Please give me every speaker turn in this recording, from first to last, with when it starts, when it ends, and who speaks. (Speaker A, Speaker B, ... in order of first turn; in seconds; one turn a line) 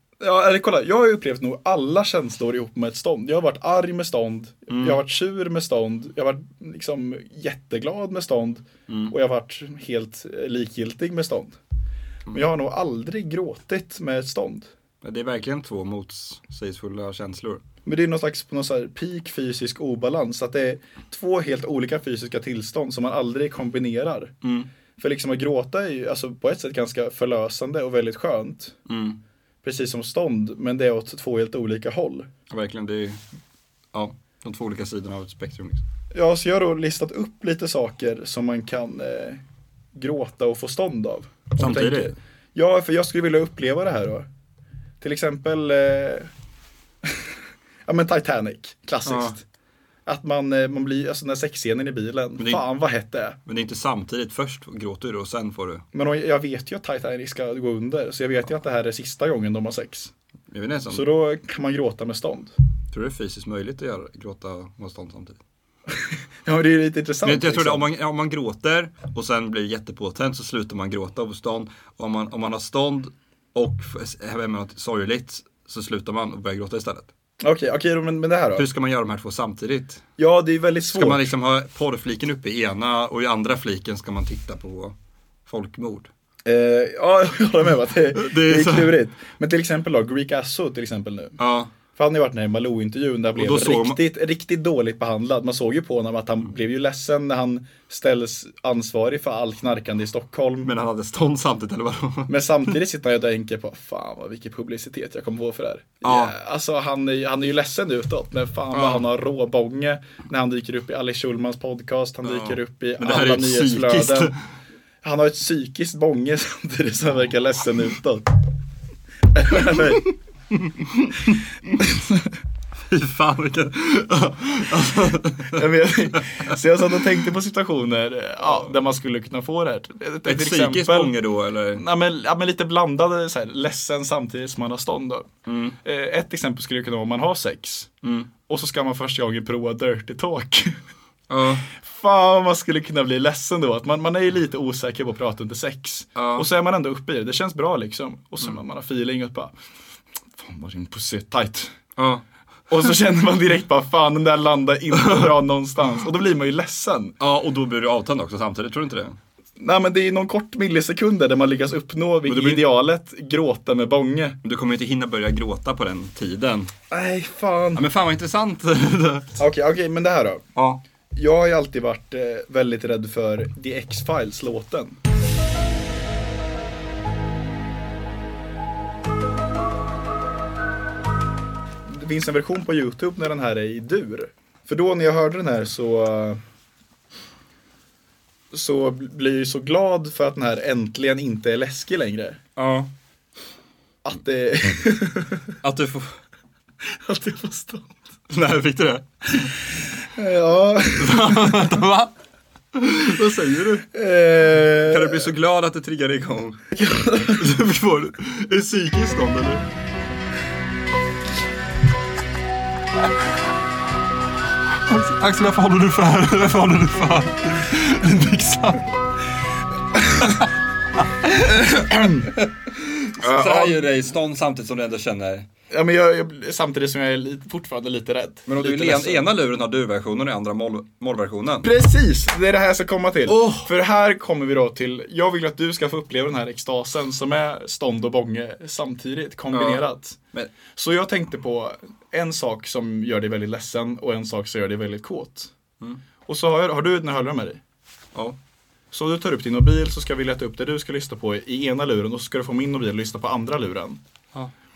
Speaker A: 0.2-11.6
Speaker B: 4.7-5.0
Speaker B: 8.9-9.1
Speaker A: 12.3-14.7
Speaker B: 15.0-17.6
Speaker A: 17.9-24.4
Speaker B: 24.4-24.7
Speaker A: 25.0-28.8
Speaker B: 28.9-29.2
Speaker A: 29.6-32.3
Speaker B: 32.5-33.2
Speaker B: 33.9-35.8
Speaker A: 36.1-39.4
Speaker A: 39.9-44.3
Speaker B: 41.6-42.2
Speaker A: 45.0-46.3
Speaker A: 47.9-49.4
Speaker B: 49.0-49.4
Speaker A: 50.1-53.4
Speaker B: 52.4-52.6
Speaker B: 53.5-55.8
Speaker A: 55.9-60.1
Speaker B: 60.5-61.1
Speaker A: 60.9-62.5
Speaker B: 62.9-65.4
Speaker A: 66.4-67.9
Speaker B: 67.2-77.1
Speaker A: 77.4-78.7
Speaker B: 78.6-80.0
Speaker A: 80.2-81.3
Speaker B: 80.9-85.0
Speaker B: 85.5-86.1
Speaker A: 86.5-91.4
Speaker B: 88.1-88.9
Speaker B: 91.4-91.7
Speaker A: 92.0-100.7
Speaker B: 93.4-94.0
Speaker B: 100.6-102.3
Speaker A: 102.3-114.3
Speaker B: 106.0-106.3
Speaker B: 108.7-109.0
Speaker B: 112.2-114.4
Speaker A: 115.0-118.3
Speaker A: 119.3-120.1
Speaker B: 120.5-121.4
Speaker A: 121.8-122.2
Speaker B: 122.9-125.6
Speaker A: 125.5-131.1
Speaker B: 128.4-128.7
Speaker B: 130.2-131.8
Speaker A: 131.8-135.3
Speaker B: 135.5-135.8
Speaker A: 135.8-137.9
Speaker B: 138.0-138.3
Speaker A: 138.5-140.8
Speaker B: 141.3-141.7
Speaker A: 141.7-149.5
Speaker B: 146.2-146.5
Speaker A: 150.4-151.8
Speaker B: 152.0-152.2
Speaker A: 152.7-157.2
Speaker B: 154.9-155.3
Speaker B: 157.2-159.2
Speaker A: 159.6-164.4
Speaker B: 162.2-162.6
Speaker B: 164.4-166.7
Speaker A: 166.9-167.8
Speaker B: 167.8-169.4
Speaker A: 169.4-170.4
Speaker B: 170.6-170.8
Speaker A: 171.1-175.0
Speaker A: 181.9-186.4
Speaker A: 188.5-192.4
Speaker B: 192.6-192.9
Speaker A: 194.1-195.5
Speaker B: 195.6-196.1
Speaker A: 197.0-197.9
Speaker B: 198.3-199.5
Speaker A: 200.2-201.8
Speaker B: 201.0-202.1
Speaker B: 202.8-203.9
Speaker A: 203.9-205.3
Speaker B: 204.7-206.6
Speaker A: 206.8-207.3
Speaker B: 207.3-209.6
Speaker B: 214.9-218.8
Speaker A: 221.5-222.4
Speaker B: 222.4-225.5
Speaker A: 223.2-223.8
Speaker A: 225.7-229.3
Speaker B: 228.5-231.7
Speaker A: 231.6-240.2
Speaker B: 233.3-233.7
Speaker B: 239.5-240.5
Speaker A: 240.7-245.5
Speaker A: 246.3-247.6
Speaker A: 248.9-254.0